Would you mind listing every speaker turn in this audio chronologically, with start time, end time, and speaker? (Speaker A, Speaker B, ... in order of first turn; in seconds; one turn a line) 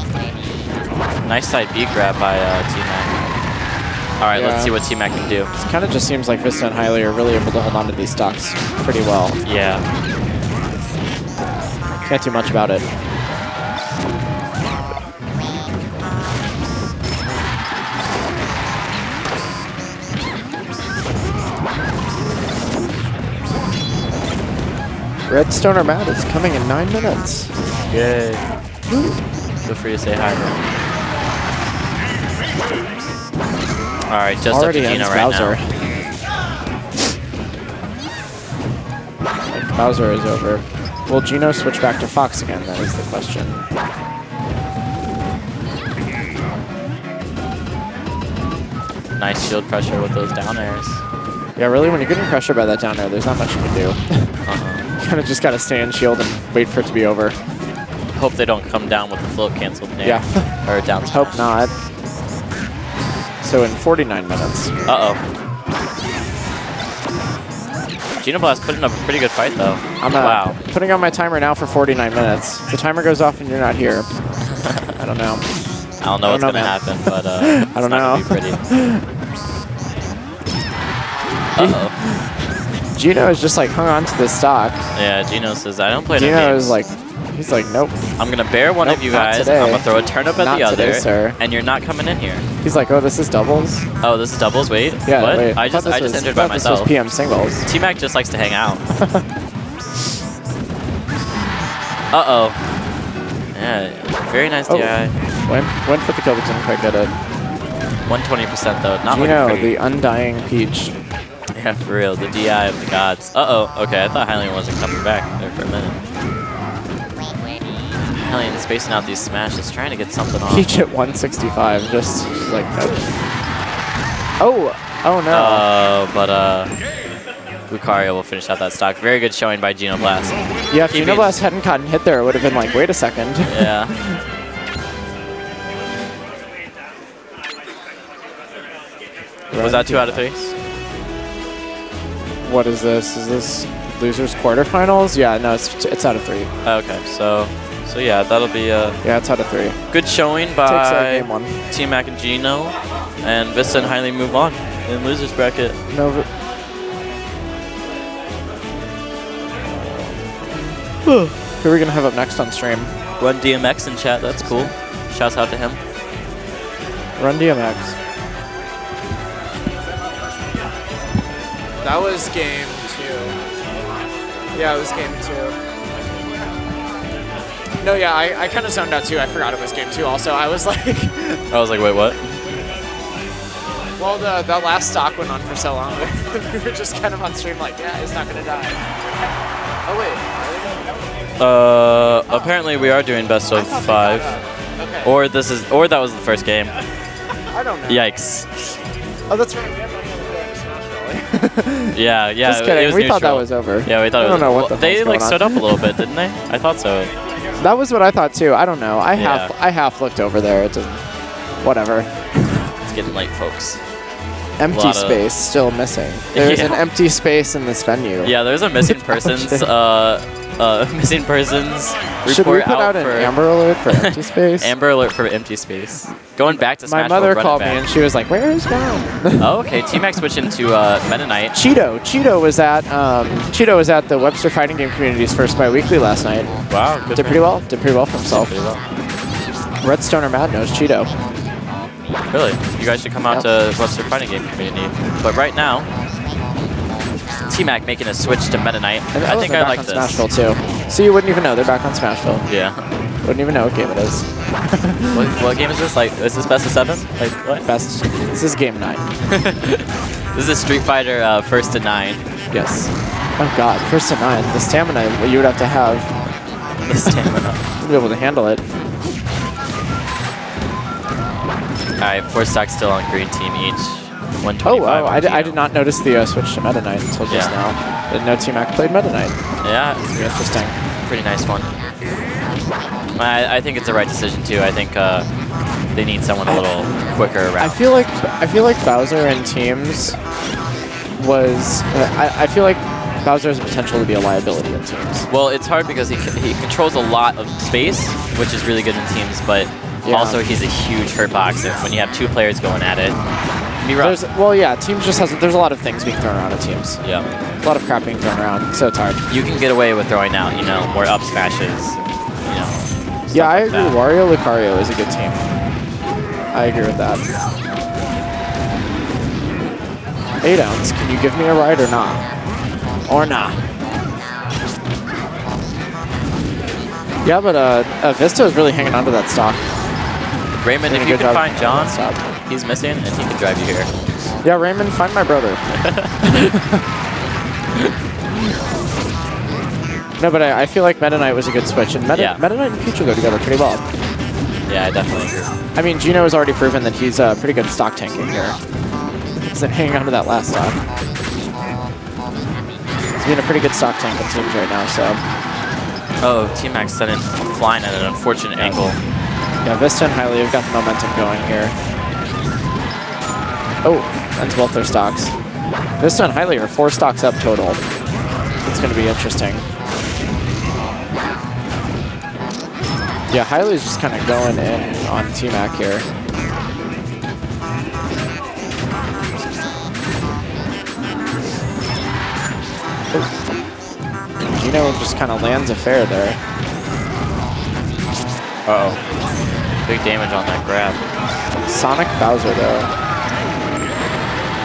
Speaker A: 1.2-3.1
Speaker A: 4.2-5.5
Speaker B: 4.3-4.8
Speaker B: 5.6-9.4
Speaker A: 9.4-9.8
Speaker B: 12.0-12.8
Speaker B: 25.3-27.5
Speaker A: 27.9-28.4
Speaker B: 28.9-29.1
Speaker A: 29.6-30.6
Speaker A: 34.1-35.6
Speaker B: 34.5-35.7
Speaker B: 39.5-43.6
Speaker A: 49.2-51.0
Speaker B: 51.5-54.3
Speaker A: 54.5-54.9
Speaker B: 55.0-57.4
Speaker A: 58.1-61.5
Speaker B: 60.0-61.7
Speaker B: 63.4-64.7
Speaker A: 64.8-65.2
Speaker A: 68.2-70.6
Speaker B: 70.0-74.1
Speaker B: 75.0-75.5
Speaker A: 76.0-78.6
Speaker B: 76.2-79.0
Speaker A: 81.5-81.9
Speaker B: 81.5-82.2
Speaker B: 82.9-84.8
Speaker A: 84.9-86.8
Speaker B: 86.1-88.0
Speaker A: 88.2-92.4
Speaker B: 88.8-91.3
Speaker B: 92.6-93.8
Speaker A: 94.0-96.9
Speaker B: 95.0-97.6
Speaker A: 97.6-98.8
Speaker A: 102.1-102.6
Speaker A: 103.5-105.1
Speaker B: 104.7-107.1
Speaker A: 108.0-109.7
Speaker B: 109.0-110.9
Speaker A: 111.5-116.0
Speaker A: 118.0-120.7
Speaker B: 120.5-123.1
Speaker B: 124.4-125.7
Speaker A: 125.3-126.7
Speaker A: 127.7-131.3
Speaker B: 130.7-134.2
Speaker A: 133.4-133.9
Speaker B: 139.5-140.3
Speaker A: 139.6-140.5
Speaker B: 142.4-146.5
Speaker A: 146.6-149.0
Speaker B: 149.0-149.8
Speaker A: 149.9-155.8
Speaker B: 150.6-151.6
Speaker B: 153.6-153.9
Speaker B: 155.9-156.3
Speaker A: 161.1-161.3
Speaker B: 161.6-163.0
Speaker A: 163.2-165.8
Speaker B: 164.4-164.7
Speaker B: 167.2-167.9
Speaker B: 171.8-173.3
Speaker B: 174.5-175.6
Speaker B: 177.8-181.4
Speaker A: 181.5-182.4
Speaker B: 184.0-188.8
Speaker B: 189.8-190.9
Speaker A: 191.4-194.3
Speaker B: 193.5-195.1
Speaker A: 195.0-196.7
Speaker B: 197.5-198.1
Speaker A: 197.9-198.8
Speaker B: 199.3-206.0
Speaker A: 201.9-207.1
Speaker B: 207.6-211.1
Speaker A: 209.1-209.5
Speaker B: 211.6-212.6
Speaker A: 212.8-213.8
Speaker B: 214.6-219.7
Speaker A: 214.7-215.2
Speaker A: 216.3-216.8
Speaker A: 218.2-223.4
Speaker B: 222.2-224.7
Speaker A: 223.9-227.8
Speaker B: 226.5-229.4
Speaker A: 229.4-231.5
Speaker B: 231.5-238.6
Speaker A: 236.7-237.5
Speaker A: 238.3-238.8
Speaker B: 239.8-241.1
Speaker A: 242.3-245.9
Speaker A: 247.5-250.2
Speaker B: 249.1-252.4
Speaker A: 252.4-252.8
Speaker B: 253.2-255.1
Speaker A: 255.1-257.6
Speaker B: 257.6-259.1
Speaker A: 259.3-262.2
Speaker B: 262.5-266.1
Speaker A: 266.8-267.6
Speaker B: 267.8-268.6
Speaker A: 272.0-275.6
Speaker B: 274.6-279.4
Speaker A: 277.3-277.5
Speaker A: 279.6-280.4
Speaker B: 280.0-280.8
Speaker A: 281.1-281.7
Speaker A: 283.1-285.3
Speaker A: 285.9-287.8
Speaker B: 287.6-290.2
Speaker B: 291.1-295.2
Speaker A: 295.3-303.1
Speaker B: 300.0-300.4
Speaker A: 303.8-304.2
Speaker B: 304.0-307.0
Speaker A: 307.0-307.4
Speaker B: 307.6-309.2
Speaker A: 309.3-314.0
Speaker B: 313.3-315.4
Speaker B: 316.5-317.2
Speaker B: 320.4-322.2
Speaker B: 323.1-323.6
Speaker B: 327.2-329.6
Speaker A: 330.6-333.9
Speaker B: 330.9-332.2
Speaker B: 334.4-336.5
Speaker A: 335.8-336.1
Speaker B: 340.2-343.8
Speaker A: 342.1-342.4
Speaker A: 344.7-345.5
Speaker B: 345.7-348.6
Speaker B: 349.5-350.8
Speaker B: 353.1-355.2
Speaker A: 356.2-359.0
Speaker B: 359.6-361.8
Speaker B: 363.8-365.4
Speaker B: 366.0-367.8
Speaker B: 368.6-369.6
Speaker B: 373.3-376.1
Speaker B: 384.4-386.4
Speaker A: 388.6-389.0
Speaker A: 389.9-391.0
Speaker B: 391.6-392.9